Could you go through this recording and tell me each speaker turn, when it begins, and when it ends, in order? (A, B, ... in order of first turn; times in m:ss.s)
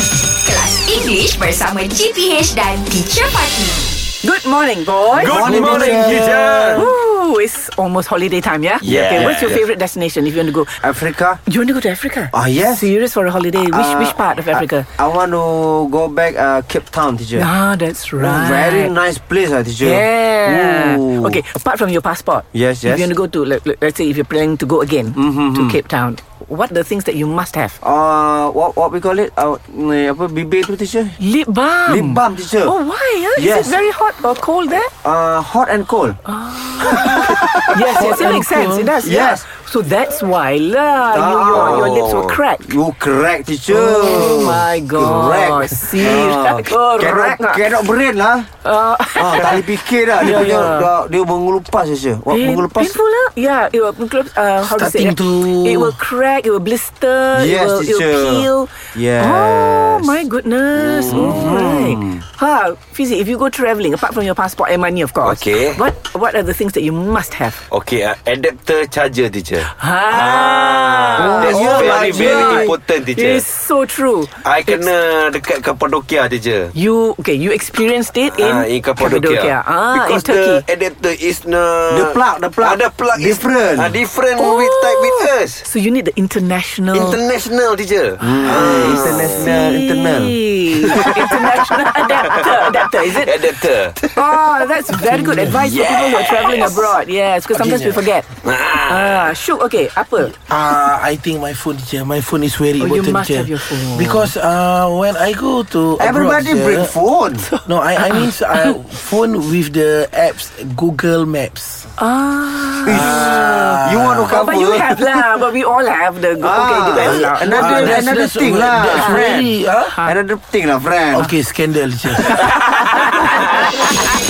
0:00.4-0:03.8 A
0:04.2-0:06.2 B
0:05.1-0:06.9 C
0:05.2-0:06.9 D
0:06.7-0:10.8 B
0:08.8-0:09.6 C
0:08.9-0:09.4 D
0:10.8-0:11.4 D
0:11.5-0:14.9 B
0:12.3-0:12.9 D
0:13.6-0:17.5 D
0:17.4-0:19.0 B
0:18.2-0:21.4 D
0:19.8-0:27.8 B
0:22.5-0:23.1 D
0:25.2-0:25.8 D
0:27.8-0:31.2 D
0:31.2-0:34.9 B
0:31.9-0:32.7 D
0:33.4-0:33.8 D
0:35.0-0:36.2 D
0:36.3-0:42.6 B
0:36.8-0:38.0 D
0:37.8-0:38.9 E
0:39.0-0:39.4 D
0:41.1-0:42.0 D
0:41.5-0:42.4 C
0:42.6-0:48.5 D
0:43.7-0:47.7 B
0:48.6-0:49.6 B
0:49.2-0:53.0 D
0:50.2-0:50.9 B
0:52.3-1:07.6 B
0:54.6-0:56.0 E
0:57.3-1:00.2 D
1:01.0-1:02.2 D
1:05.2-1:05.8 C
1:07.7-1:13.4 C
1:09.6-1:14.9 B
1:11.2-1:12.7 D
1:14.4-1:16.7 C
1:16.7-1:20.6 B
1:18.3-1:25.6 C
1:21.9-1:24.0 D
1:24.4-1:27.2 B
1:26.9-1:29.6 C
1:28.2-1:30.4 D
1:28.6-1:33.4 B
1:30.9-1:34.2 C
1:34.0-1:38.3 B
1:35.1-1:35.5 E
1:35.6-1:36.9 C
1:37.5-1:38.0 E
1:38.4-1:39.3 C
1:38.9-1:40.4 B
1:40.5-1:46.9 E
1:42.8-1:44.1 B
1:44.0-1:44.3 D
1:46.0-1:47.5 D
1:47.5-1:48.7 B
1:47.6-1:51.9 E
1:52.0-1:53.8 B
1:52.8-1:55.3 D
1:52.9-1:54.4 E
1:54.3-1:58.1 B
1:56.4-2:01.3 D
1:56.9-2:00.0 E
2:01.1-2:02.4 E
2:02.4-2:03.8 B